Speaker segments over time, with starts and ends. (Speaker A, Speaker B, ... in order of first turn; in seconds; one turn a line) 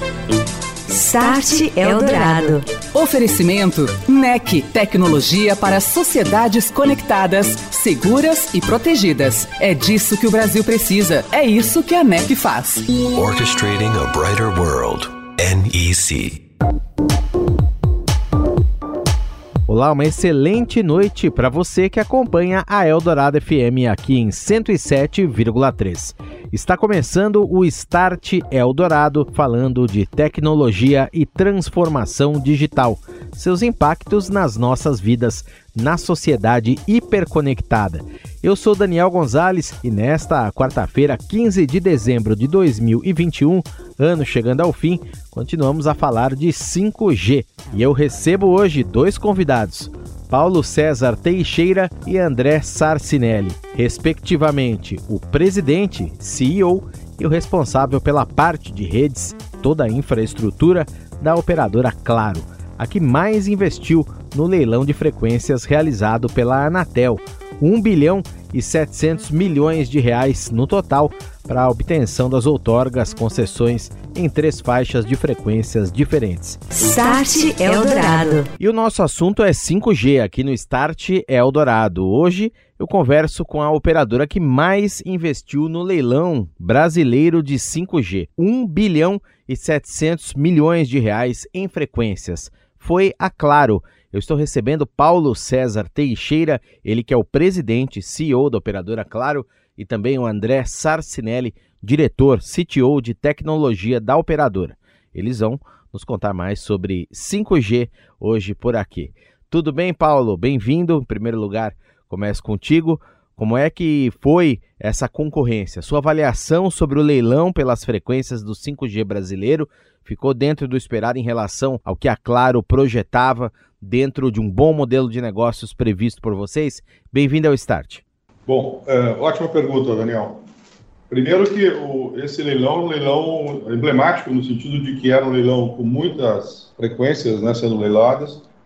Speaker A: 0.9-2.7
Speaker B: 2.9-12.9
Speaker C: 13.0-16.4
Speaker D: 19.7-76.6
Speaker A: 76.7-78.5
Speaker D: 78.6-128.0
Speaker E: 128.5-130.5
Speaker E: 131.1-138.5